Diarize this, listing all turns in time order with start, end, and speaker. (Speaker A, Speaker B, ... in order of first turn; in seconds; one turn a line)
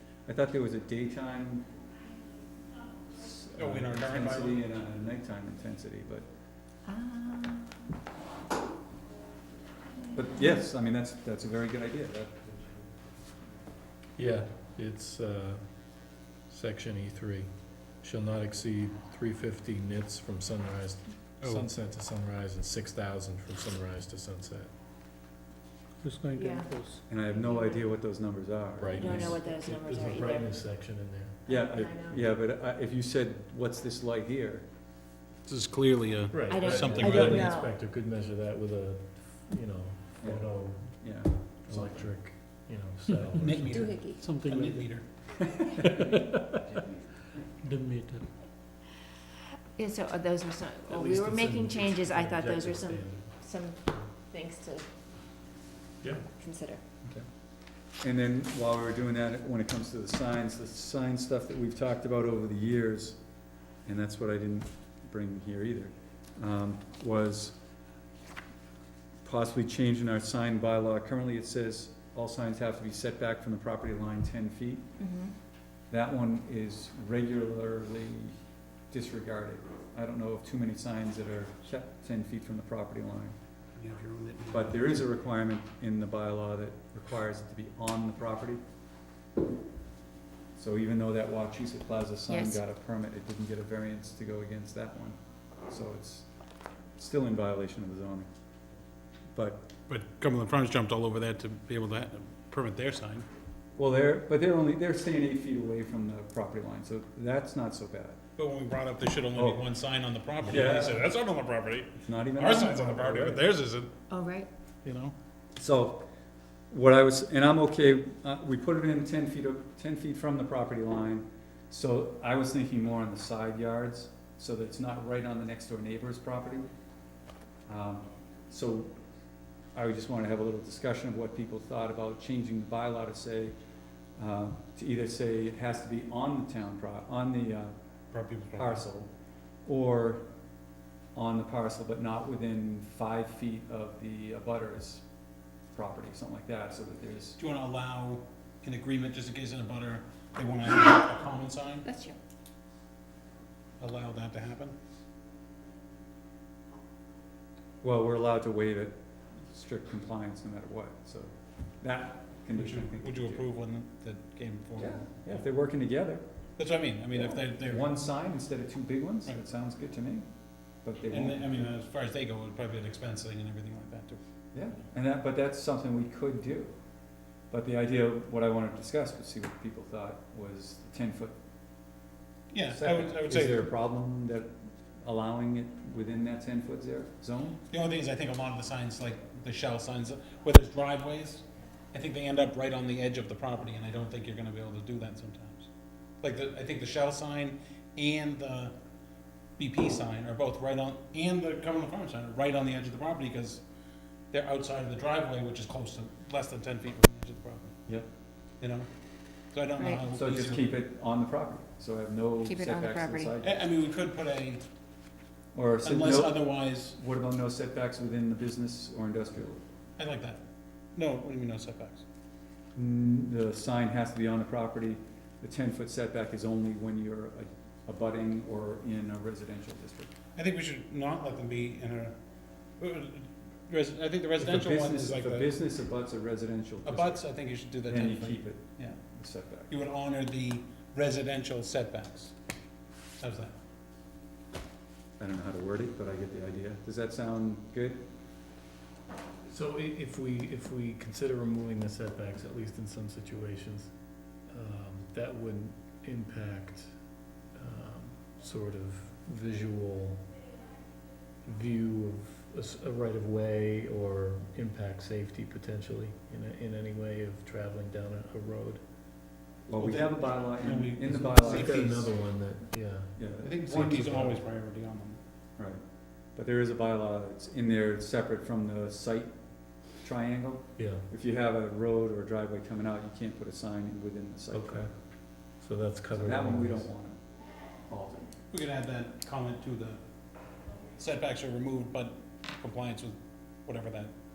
Speaker A: 0.3-1.6
Speaker A: 3.1-6.3
Speaker B: 3.6-4.6
Speaker C: 6.9-7.8
Speaker C: 10.1-10.6
Speaker A: 10.1-12.8
Speaker D: 14.2-15.7
Speaker D: 16.5-17.5
Speaker D: 18.0-24.7
Speaker B: 21.4-21.7
Speaker E: 26.0-27.0
Speaker C: 26.3-27.9
Speaker A: 27.1-29.4
Speaker D: 28.8-31.4
Speaker C: 28.9-30.6
Speaker C: 31.5-32.3
Speaker A: 31.5-34.7
Speaker B: 35.5-37.5
Speaker D: 36.3-44.0
Speaker C: 36.5-37.7
Speaker A: 40.2-42.1
Speaker B: 43.1-45.1
Speaker C: 43.7-44.2
Speaker E: 44.1-45.0
Speaker D: 45.8-46.6
Speaker A: 46.6-47.0
Speaker E: 47.6-48.3
Speaker C: 49.8-54.8
Speaker D: 50.9-53.3
Speaker C: 56.2-56.8
Speaker A: 58.0-63.2
Speaker A: 63.9-67.5
Speaker A: 69.2-74.8
Speaker C: 75.0-75.3
Speaker A: 75.9-78.3
Speaker A: 78.9-83.3
Speaker B: 83.8-84.9
Speaker A: 84.5-88.6
Speaker A: 90.6-95.2
Speaker C: 92.3-92.6
Speaker A: 95.7-96.3
Speaker A: 97.0-98.3
Speaker A: 99.3-99.7
Speaker B: 99.9-103.3
Speaker A: 103.8-108.2
Speaker B: 108.4-113.9
Speaker A: 109.3-109.6
Speaker A: 110.4-111.0
Speaker A: 112.0-113.5
Speaker C: 114.1-114.5
Speaker A: 115.6-116.0
Speaker A: 116.7-126.7
Speaker A: 127.7-128.9
Speaker A: 129.8-133.6
Speaker A: 134.2-137.7
Speaker B: 138.1-138.8
Speaker A: 138.6-139.1
Speaker A: 139.7-140.2
Speaker A: 141.2-145.0
Speaker A: 145.7-147.4
Speaker B: 147.4-151.9
Speaker C: 151.8-152.2
Speaker B: 153.8-154.7
Speaker A: 157.8-161.3
Speaker A: 161.8-163.4
Speaker B: 162.5-165.4
Speaker A: 164.8-166.2
Speaker B: 166.6-167.9
Speaker A: 167.1-170.2
Speaker A: 170.8-171.7
Speaker B: 171.1-174.2
Speaker A: 174.5-176.7
Speaker A: 177.5-181.3
Speaker B: 182.5-183.7
Speaker A: 182.7-184.5
Speaker A: 185.0-187.6
Speaker B: 187.7-195.7
Speaker B: 196.2-198.7
Speaker B: 199.6-203.6
Speaker B: 204.3-207.7
Speaker B: 208.6-208.9
Speaker B: 209.5-210.8
Speaker C: 209.8-210.0
Speaker A: 210.1-213.7
Speaker C: 212.4-213.3
Speaker B: 213.4-214.6
Speaker A: 215.6-219.6
Speaker B: 215.8-216.9
Speaker B: 220.0-220.4
Speaker B: 220.9-222.0
Speaker A: 222.8-230.1
Speaker B: 230.4-232.2
Speaker B: 232.8-235.5
Speaker A: 234.4-237.2
Speaker B: 236.8-239.0
Speaker A: 237.9-239.7
Speaker B: 239.7-242.3
Speaker B: 243.2-243.6
Speaker A: 245.2-248.0
Speaker D: 249.5-253.9
Speaker D: 254.5-256.9
Speaker D: 257.6-260.3
Speaker D: 261.5-268.8
Speaker A: 269.7-272.0
Speaker B: 269.8-272.1
Speaker D: 271.3-273.2
Speaker A: 273.2-274.2
Speaker B: 273.4-275.2
Speaker D: 273.7-274.4
Speaker A: 276.4-279.3
Speaker A: 280.0-284.9
Speaker D: 280.8-281.1
Speaker D: 284.5-284.9
Speaker D: 285.6-286.9
Speaker A: 286.1-287.2
Speaker A: 287.9-288.3
Speaker B: 288.5-290.0
Speaker B: 291.0-294.1